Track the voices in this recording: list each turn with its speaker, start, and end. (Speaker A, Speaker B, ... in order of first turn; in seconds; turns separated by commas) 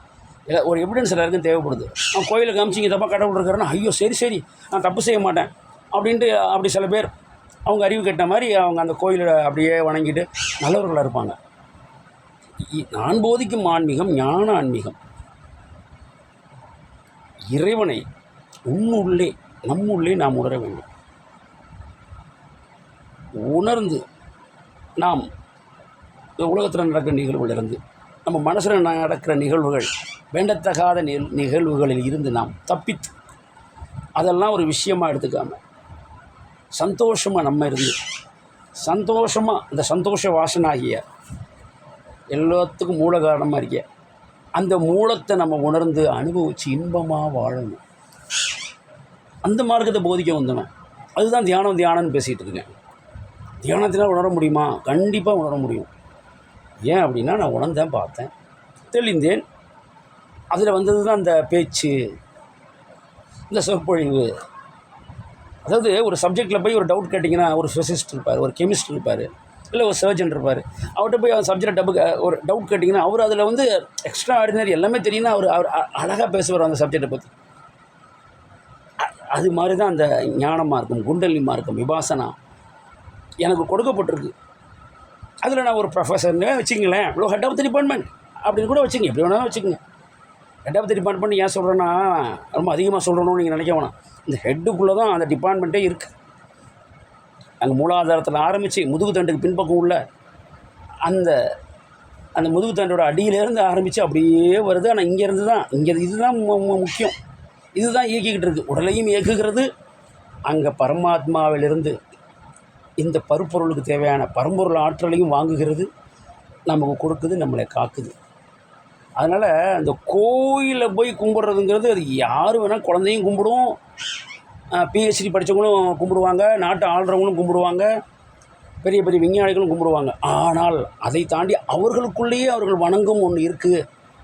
Speaker A: 0.5-7.1, Speaker A: 7.7-11.4, Speaker A: 12.7-15.0, Speaker A: 17.5-18.0, Speaker A: 18.7-20.9, Speaker A: 23.4-24.0, Speaker A: 25.0-25.3, Speaker A: 26.4-33.1, Speaker A: 34.2-35.6, Speaker A: 36.8-38.0, Speaker A: 38.8-41.0, Speaker A: 42.3-43.8, Speaker A: 44.6-47.8, Speaker A: 49.4-52.7, Speaker A: 53.6-55.9, Speaker A: 56.9-58.3, Speaker A: 58.9-59.4, Speaker A: 60.5-62.1, Speaker A: 63.5-64.3, Speaker A: 65.7-77.3, Speaker A: 79.0-82.3, Speaker A: 83.4-84.3, Speaker A: 85.4-89.8, Speaker A: 90.7-96.1, Speaker A: 97.6-100.0, Speaker A: 101.1-101.4, Speaker A: 102.4-107.2, Speaker A: 107.8-109.7, Speaker A: 110.5-112.0, Speaker A: 113.0-115.9, Speaker A: 116.7-118.2, Speaker A: 119.2-123.8, Speaker A: 124.7-127.9, Speaker A: 128.8-133.8